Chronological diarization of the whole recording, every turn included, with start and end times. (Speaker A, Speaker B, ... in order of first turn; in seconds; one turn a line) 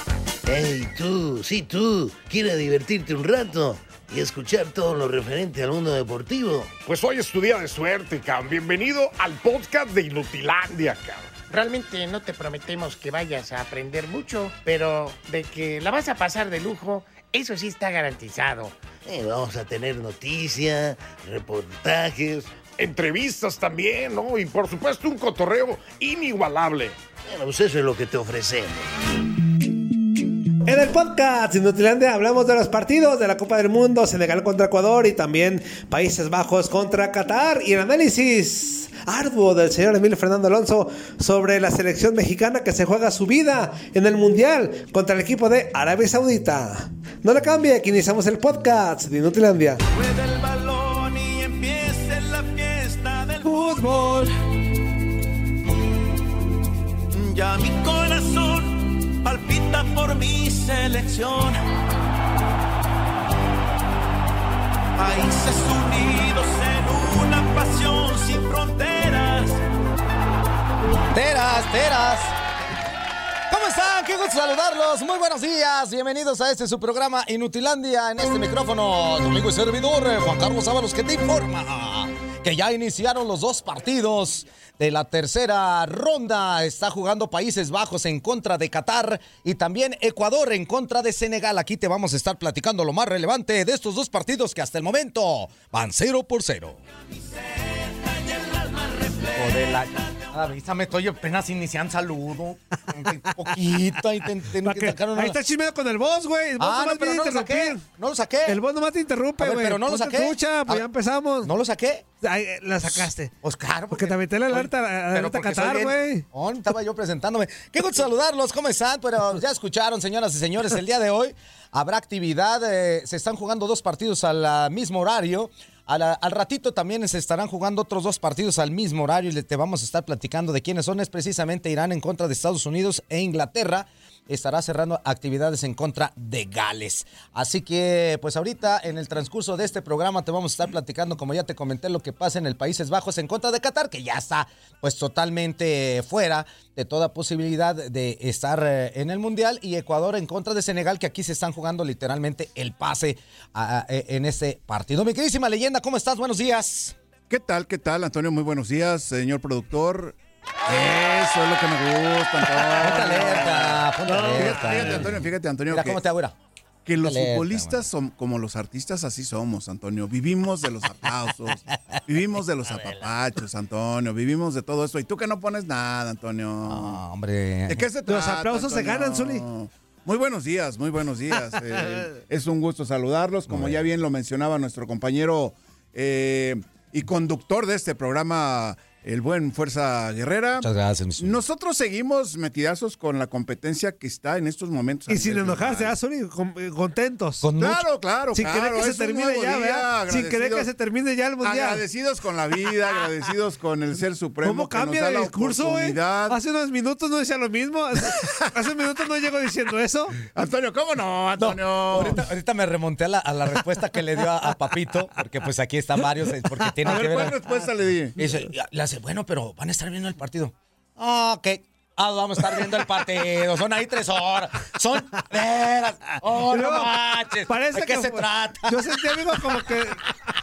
Speaker A: 0.5-6.8
Speaker B: 6.8-11.4
Speaker C: 11.5-18.8
Speaker A: 19.1-22.5
Speaker B: 22.8-27.0
Speaker A: 27.2-28.9
Speaker D: 30.6-49.8
Speaker E: 49.9-54.3
Speaker E: 57.1-61.6
Speaker E: 65.0-69.6
Speaker F: 71.1-72.4
Speaker F: 73.5-96.8
Speaker E: 97.1-100.1
Speaker F: 99.3-105.4
Speaker D: 104.6-107.8
Speaker F: 106.6-108.6
Speaker D: 108.5-111.5
Speaker F: 109.4-110.9
Speaker F: 111.4-112.1
Speaker D: 112.2-113.3
Speaker F: 112.8-157.0
Speaker D: 113.9-116.2
Speaker G: 157.3-166.0
Speaker F: 162.7-166.3
Speaker D: 164.1-165.2
Speaker G: 166.9-177.0
Speaker F: 167.0-167.8
Speaker F: 176.7-177.9
Speaker G: 177.7-190.7
Speaker D: 178.1-179.5
Speaker F: 183.5-183.8
Speaker F: 190.6-191.4
Speaker G: 191.2-195.9
Speaker D: 195.1-197.5
Speaker F: 197.4-197.8
Speaker G: 197.6-200.7
Speaker D: 198.3-201.8
Speaker G: 201.4-206.4
Speaker D: 204.4-210.2
Speaker G: 210.2-212.2
Speaker F: 211.4-217.4
Speaker G: 216.8-218.2
Speaker D: 216.9-217.3
Speaker F: 218.2-229.2
Speaker D: 226.4-230.1